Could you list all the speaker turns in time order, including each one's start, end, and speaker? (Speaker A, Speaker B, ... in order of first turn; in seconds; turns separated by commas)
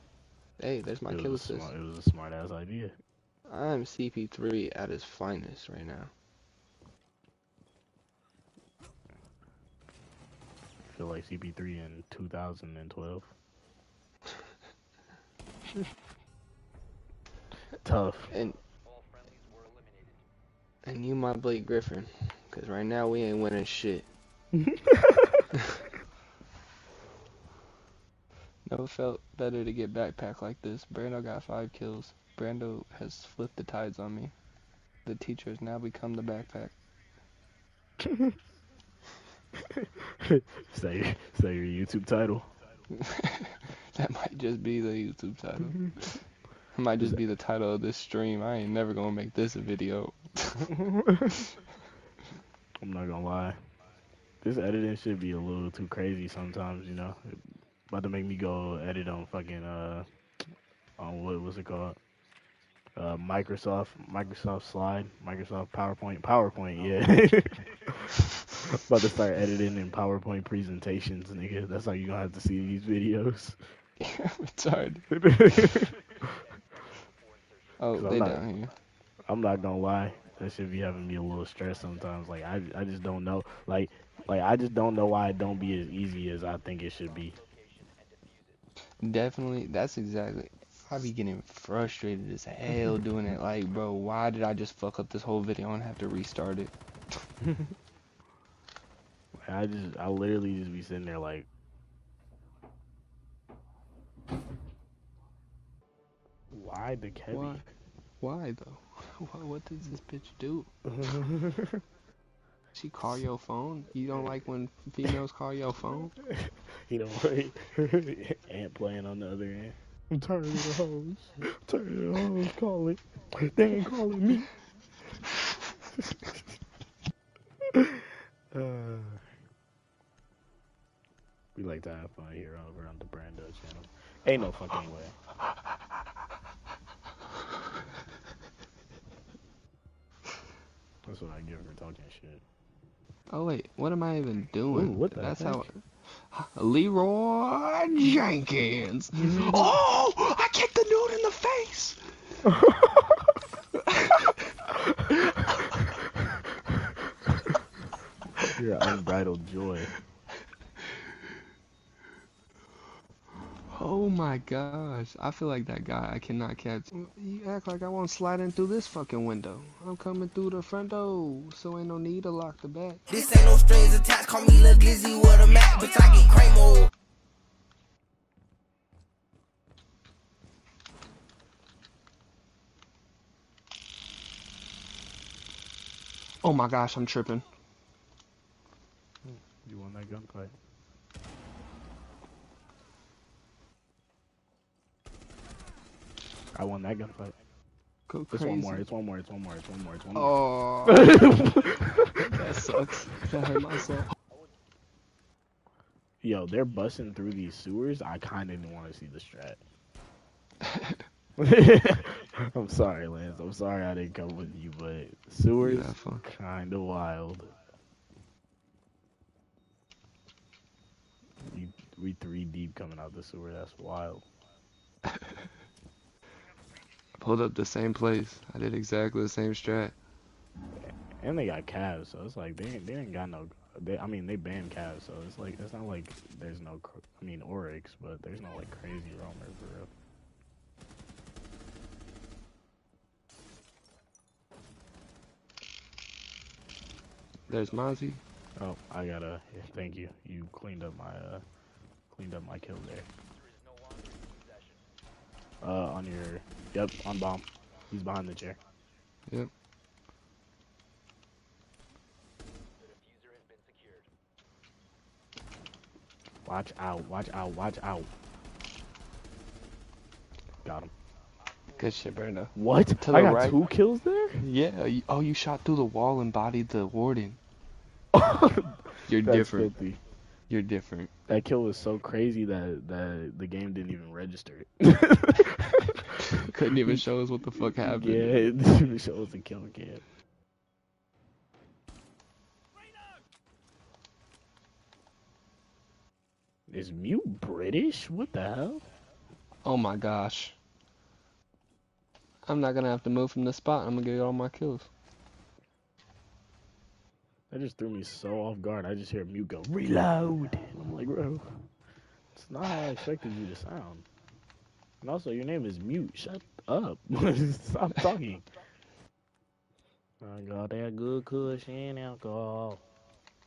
Speaker A: 0.6-1.7, Speaker B: 1.1-3.0, Speaker A: 3.5-6.1, Speaker B: 10.9-13.3, Speaker B: 17.8-18.3, Speaker A: 18.3-18.6, Speaker A: 20.9-24.1, Speaker B: 24.6-25.4, Speaker A: 28.6-34.3, Speaker A: 35.0-36.7, Speaker B: 38.0-38.3, Speaker B: 39.7-42.5, Speaker A: 42.9-45.8, Speaker A: 46.7-50.7, Speaker B: 50.7-51.5, Speaker B: 52.8-53.6, Speaker B: 54.4-60.0, Speaker B: 61.0-62.0, Speaker B: 63.0-73.6, Speaker A: 74.0-75.0, Speaker B: 75.1-76.0, Speaker A: 77.8-78.7, Speaker B: 77.9-78.4, Speaker B: 79.3-87.3, Speaker A: 89.0-96.7, Speaker B: 99.4-101.5, Speaker B: 106.5-107.7, Speaker A: 107.3-107.6, Speaker A: 108.2-110.7, Speaker B: 110.8-111.8, Speaker A: 112.7-116.1, Speaker B: 116.4-124.5, Speaker B: 127.7-128.0, Speaker B: 128.5-129.2, Speaker B: 131.6-135.2, Speaker B: 141.1-142.4, Speaker A: 143.3-152.0, Speaker B: 144.7-145.7, Speaker B: 149.2-149.7, Speaker B: 152.4-153.0, Speaker A: 153.9-154.3, Speaker B: 158.5-159.9, Speaker A: 163.7-173.1, Speaker C: 173.1-176.9, Speaker A: 186.4-187.4, Speaker B: 189.2-190.5, Speaker B: 196.5-197.3, Speaker A: 198.1-198.8, Speaker B: 198.3-202.2, Speaker A: 200.1-201.1, Speaker A: 202.2-204.1, Speaker B: 206.2-209.6, Speaker A: 210.7-210.9, Speaker B: 211.4-217.5, Speaker A: 215.6-216.2, Speaker B: 221.4-224.2, Speaker A: 227.2-229.9, Speaker B: 231.2-239.9, Speaker A: 247.5-248.2, Speaker B: 248.6-251.4, Speaker B: 252.1-253.1, Speaker B: 255.6-258.6, Speaker B: 266.4-268.1, Speaker B: 270.6-270.9, Speaker A: 271.8-273.6, Speaker B: 272.5-274.4, Speaker A: 274.4-277.4, Speaker B: 278.1-280.0, Speaker A: 279.1-279.7, Speaker A: 280.5-281.1, Speaker B: 281.3-287.0, Speaker A: 286.5-288.5, Speaker B: 287.8-290.0, Speaker B: 296.7-298.8, Speaker A: 299.6-300.6, Speaker A: 302.5-304.9, Speaker B: 307.5-311.5, Speaker B: 312.3-314.1, Speaker B: 315.0-318.4, Speaker B: 320.2-322.8